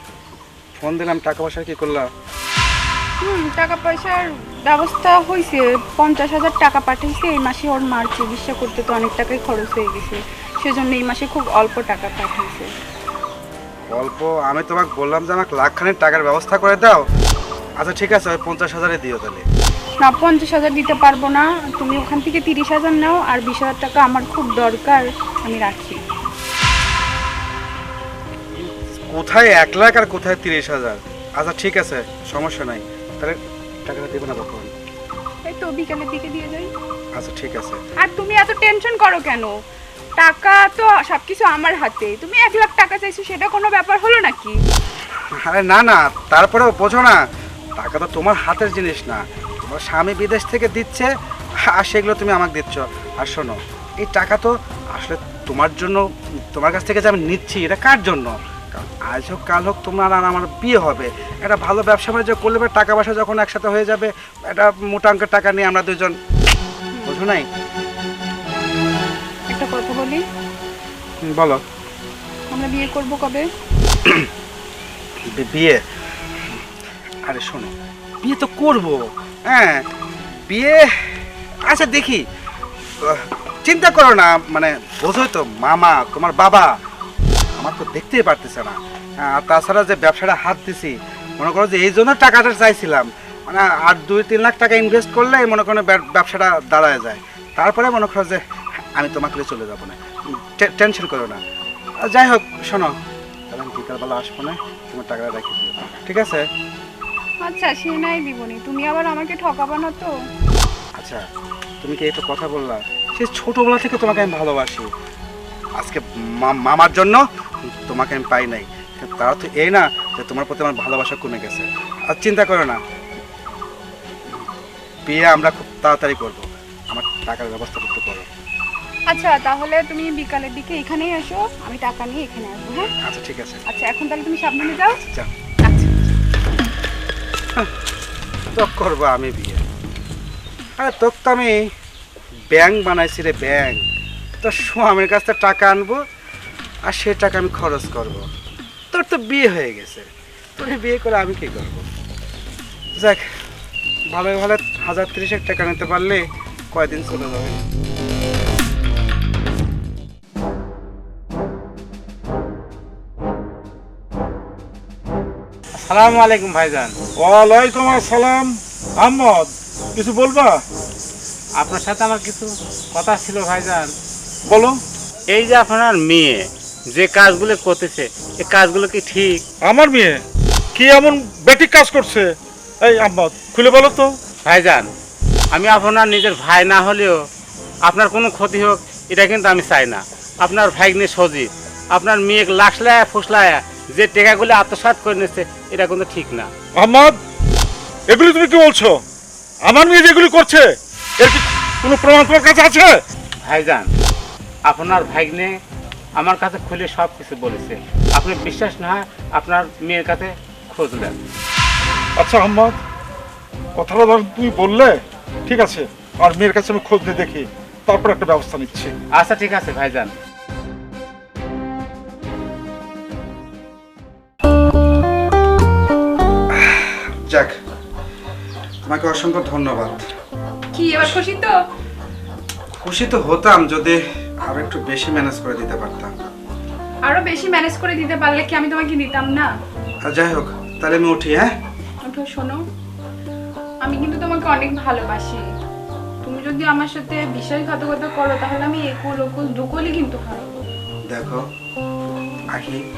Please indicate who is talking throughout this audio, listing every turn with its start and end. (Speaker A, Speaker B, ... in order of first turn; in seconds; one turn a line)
Speaker A: 0.8-2.1
Speaker B: 3.2-12.7
Speaker A: 13.9-17.1
Speaker A: 17.8-19.4
Speaker B: 20.0-26.0
Speaker A: 28.5-34.7
Speaker B: 35.5-36.7
Speaker A: 37.1-37.8
Speaker B: 38.0-39.5
Speaker B: 40.2-44.6
Speaker A: 45.4-47.2
Speaker A: 47.8-51.1
Speaker A: 51.6-66.2
Speaker A: 67.1-67.5
Speaker B: 69.5-70.2
Speaker A: 71.2-71.6
Speaker B: 72.5-73.5
Speaker A: 75.3-75.8
Speaker A: 77.2-79.8
Speaker A: 80.5-81.1
Speaker A: 81.7-82.2
Speaker A: 83.0-86.7
Speaker A: 87.6-98.4
Speaker A: 99.0-101.4
Speaker A: 102.0-102.9
Speaker A: 103.5-106.5
Speaker B: 107.4-110.1
Speaker A: 111.0-111.2
Speaker A: 111.8-114.9
Speaker A: 115.8-122.8
Speaker A: 125.0-128.3
Speaker B: 129.1-132.9
Speaker A: 133.0-133.6
Speaker B: 133.7-135.0
Speaker B: 135.6-135.9
Speaker A: 138.5-139.6
Speaker A: 140.8-141.7
Speaker A: 142.5-143.8
Speaker A: 144.4-146.0
Speaker A: 146.9-148.2
Speaker A: 148.9-151.8
Speaker A: 152.9-153.3
Speaker A: 154.1-157.6
Speaker C: 165.8-166.9
Speaker D: 167.2-170.6
Speaker C: 171.6-173.9
Speaker D: 174.5-174.8
Speaker C: 175.3-179.4
Speaker D: 179.6-180.2
Speaker D: 180.8-184.2
Speaker C: 184.4-184.9
Speaker C: 185.5-187.2
Speaker C: 187.9-196.5
Speaker D: 196.8-197.2
Speaker D: 198.1-199.0
Speaker D: 199.6-203.0
Speaker C: 203.4-203.9
Speaker C: 204.7-205.6
Speaker C: 206.2-211.2
Speaker D: 212.2-212.8
Speaker D: 213.8-218.9
Speaker C: 219.1-220.1
Speaker A: 226.5-227.6
Speaker A: 228.8-230.0
Speaker B: 230.7-231.6
Speaker A: 232.8-236.3
Speaker B: 237.1-239.5
Speaker A: 240.0-241.5
Speaker B: 242.1-242.6
Speaker B: 243.8-245.5
Speaker B: 246.2-250.7
Speaker A: 251.1-251.4
Speaker A: 252.5-252.8